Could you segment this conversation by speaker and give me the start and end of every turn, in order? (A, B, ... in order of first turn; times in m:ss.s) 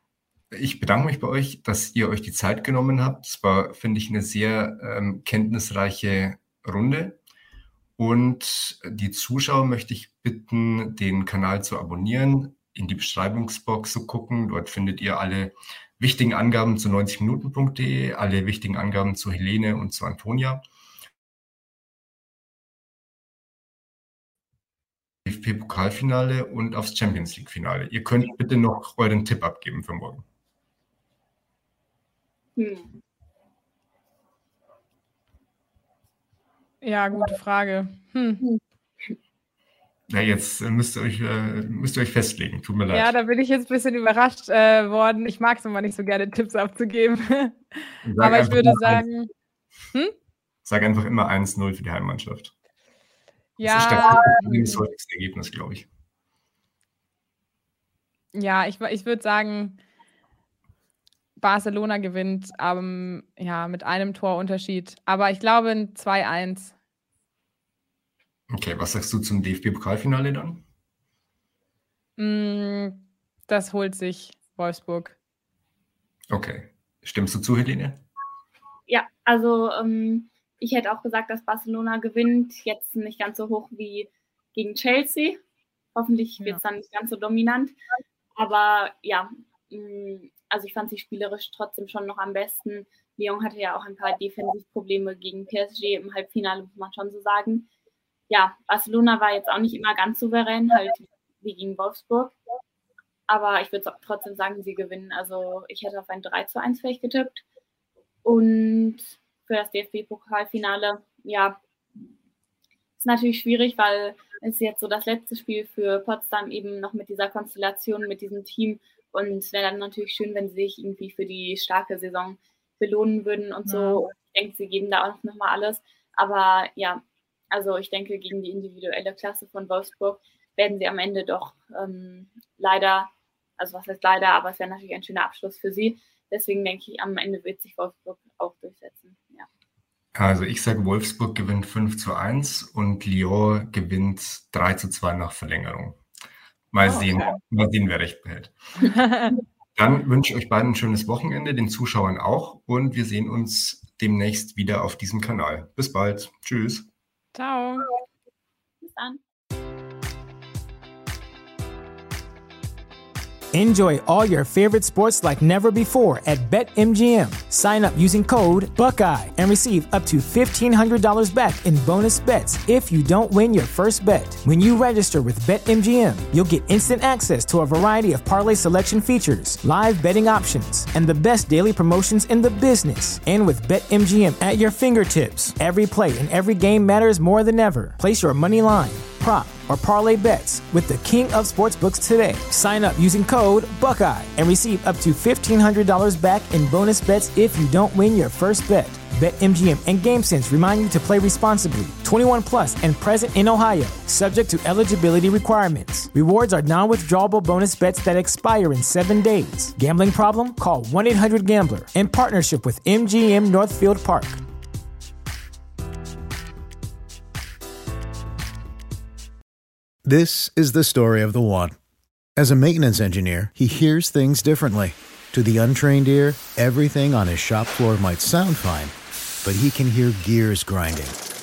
0:00.5-0:07.2 A
0:08.0-0:20.6 A
0:25.2-0:30.2 A
0:32.6-0:33.0 B
0:36.8-0:38.4 C
0:40.1-0:43.1 A
0:42.9-0:49.3 C
0:48.0-0:49.0 A
0:50.6-0:52.5 A
0:53.6-0:54.8 C
0:53.6-0:55.9 A
0:58.3-0:59.8 C
1:01.4-1:06.7 C
1:08.5-1:10.6 A
1:12.2-1:15.2 C
1:16.3-1:18.0 A
1:18.9-1:25.4 B
1:25.9-1:27.8 B
1:28.4-1:37.7 B
1:38.3-1:42.4 B
1:43.3-1:47.4 B
1:48.2-1:51.6 B
1:53.0-2:19.5 B
2:03.7-2:04.0 C
2:20.1-2:26.0 A
2:26.7-2:28.5 A
2:28.9-2:29.3 C
2:29.8-2:36.9 A
2:37.3-2:37.9 C
2:38.8-2:39.2 B
2:43.5-3:34.4 D
3:40.0-3:41.8 E
3:42.4-3:51.2 E